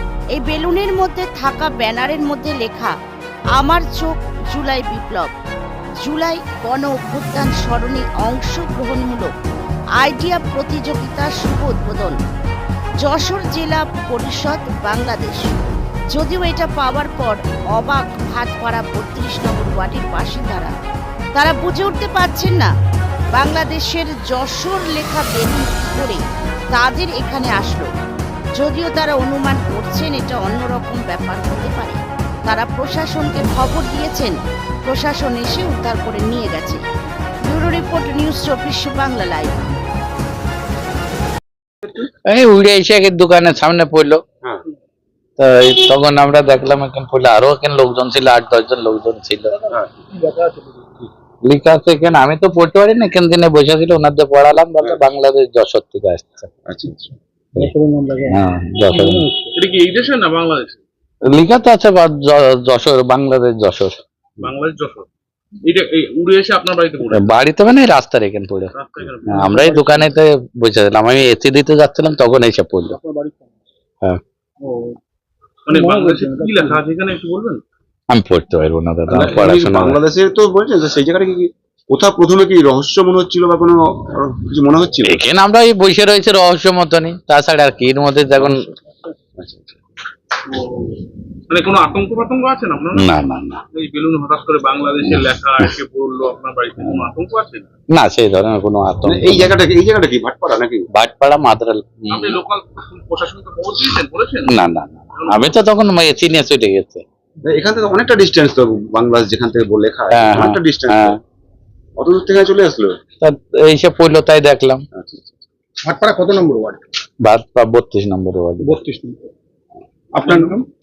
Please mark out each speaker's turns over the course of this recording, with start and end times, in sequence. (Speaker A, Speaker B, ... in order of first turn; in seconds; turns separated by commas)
Speaker A: 0.3-2.9, Speaker A: 3.5-5.3, Speaker A: 6.0-9.3, Speaker A: 10.0-12.2, Speaker A: 13.0-20.7, Speaker A: 21.3-22.7, Speaker A: 23.3-27.9, Speaker A: 28.6-36.8, Speaker A: 37.4-39.6, Speaker B: 42.2-44.2, Speaker B: 45.4-49.6, Speaker C: 49.7-50.0, Speaker D: 50.2-50.7, Speaker B: 51.4-56.5, Speaker C: 56.6-57.1, Speaker D: 57.6-58.4, Speaker B: 58.2-59.3, Speaker D: 58.9-59.2, Speaker E: 59.4-60.8, Speaker B: 61.2-64.0, Speaker E: 64.4-65.1, Speaker E: 65.6-67.3, Speaker B: 67.1-68.7, Speaker E: 68.7-70.0, Speaker B: 69.2-73.0, Speaker D: 72.9-73.5, Speaker E: 74.6-75.0, Speaker E: 75.7-77.6, Speaker D: 75.7-76.8, Speaker B: 78.1-80.0, Speaker C: 79.1-85.2, Speaker B: 85.0-88.6, Speaker C: 88.4-88.7, Speaker C: 89.4-89.7, Speaker E: 90.5-93.1, Speaker B: 92.9-93.6, Speaker E: 93.7-97.7, Speaker B: 97.9-99.5, Speaker C: 99.0-100.9, Speaker B: 100.9-102.4, Speaker E: 102.1-104.5, Speaker B: 104.4-107.0, Speaker C: 107.4-111.2, Speaker B: 110.1-111.2, Speaker C: 112.0-113.0, Speaker B: 113.2-114.8, Speaker C: 114.9-115.4, Speaker D: 115.8-116.8, Speaker B: 117.2-118.8, Speaker D: 118.6-119.3, Speaker D: 120.2-120.6